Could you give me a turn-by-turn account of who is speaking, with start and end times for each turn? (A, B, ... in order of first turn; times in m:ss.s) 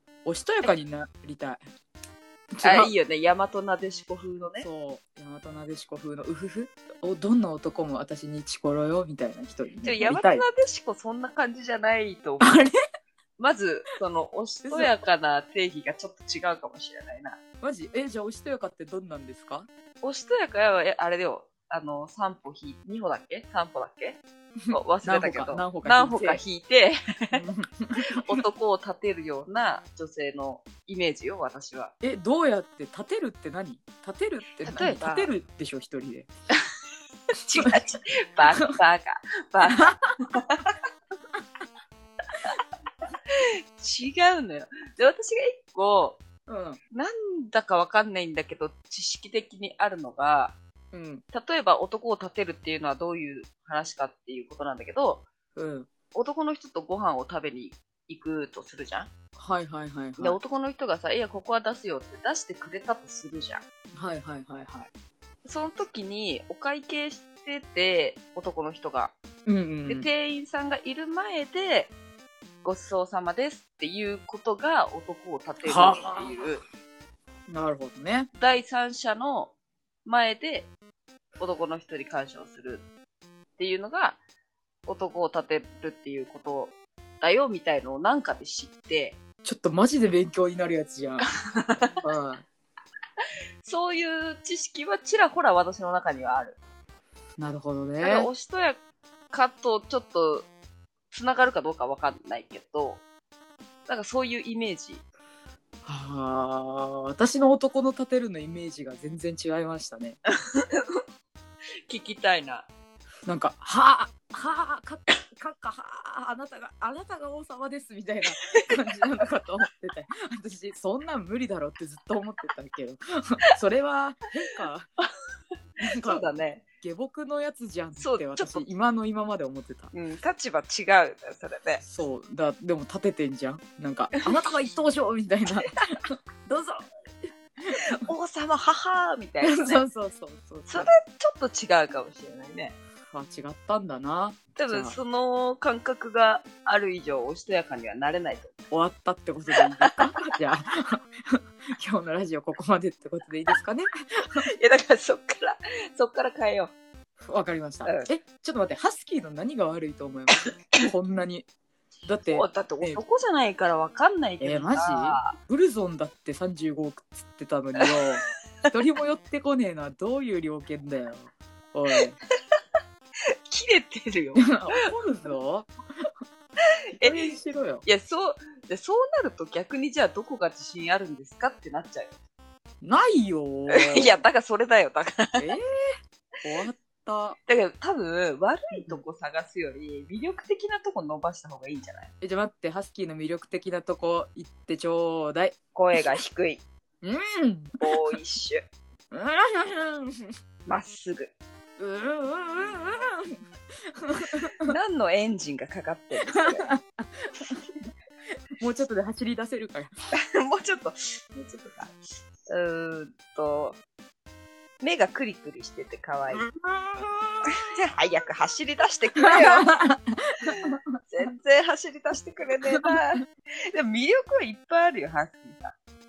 0:00.2-0:01.6 A
0:02.5-0:02.9 A
0:02.6-0:04.7 B
0:04.6-0:10.4 A
0:09.8-0:12.6 B
0:12.4-0:12.7 A
0:13.4-0:17.4 B
0:14.6-0:15.0 A
0:17.6-0:19.7 A
0:20.0-0:27.4 B
0:24.6-0:26.4 A
0:27.3-0:28.4 A
0:28.1-0:31.9 B
0:32.0-0:36.3 A
0:34.6-0:35.3 B
0:37.4-0:40.7 B
0:39.7-0:40.1 A
0:43.3-0:46.2 B
0:46.5-0:46.8 A
0:46.9-0:50.6 B
0:50.9-0:51.2 A
0:51.3-0:55.3 B
0:55.6-0:55.9 A
0:56.1-0:59.1 B
0:59.4-1:00.4 A
1:00.2-1:03.6 B
1:04.0-1:04.9 A
1:05.4-1:09.1 B
1:09.5-1:10.1 A
1:09.9-1:11.9 B
1:12.6-1:16.6 B
1:15.6-1:16.4 A
1:17.5-1:18.3 A
1:18.4-1:19.5 B
1:20.0-1:20.7 B
1:21.4-1:22.9 B
1:23.6-1:24.2 B
1:24.9-1:29.2 B
1:29.4-1:31.3 A
1:31.6-1:32.0 B
1:32.0-1:32.4 A
1:33.2-1:36.6 B
1:37.4-1:38.3 A
1:38.0-1:38.8 B
1:39.3-1:40.5 B
1:41.1-1:43.0 B
1:43.9-1:45.0 B
1:45.9-1:50.2 A
1:50.4-1:51.0 B
1:51.9-1:52.7 B
1:53.3-2:04.9 A
1:58.4-1:58.7 B
2:05.8-2:09.9 A
2:05.9-2:06.6 B
2:08.0-2:08.7 B
2:09.9-2:11.8 B
2:11.8-2:16.9 A
2:18.0-2:19.8 B
2:19.4-2:20.9 A
2:20.7-2:22.8 B
2:23.0-2:25.0 A
2:24.6-2:28.6 B
2:28.7-2:34.5 A
2:34.6-2:36.7 B
2:37.3-2:41.5 A
2:42.1-2:43.0 A
2:42.3-2:45.4 B
2:44.4-2:52.2 A
2:53.5-2:54.6 B
2:54.4-2:56.1 A
2:57.0-2:57.9 A
2:57.0-3:02.2 B
3:02.8-3:04.2 A
3:03.7-3:05.5 B
3:05.4-3:05.6 A
3:06.4-3:07.4 A
3:07.5-3:12.1 B
3:08.7-3:09.0 A
3:12.2-3:15.6 A
3:15.8-3:16.6 B
3:17.0-3:17.9 A
3:17.8-3:18.6 B
3:19.1-3:20.3 A
3:20.7-3:21.3 B
3:21.8-3:23.4 A
3:23.9-3:24.7 A
3:24.7-3:26.6 B
3:26.3-3:27.9 A
3:28.6-3:29.9 A
3:30.3-3:32.0 B
3:32.5-3:33.8 B
3:34.8-3:36.5 B
3:36.3-3:37.5 A
3:37.7-3:39.7 B
3:39.2-3:40.8 A
3:40.6-3:45.8 B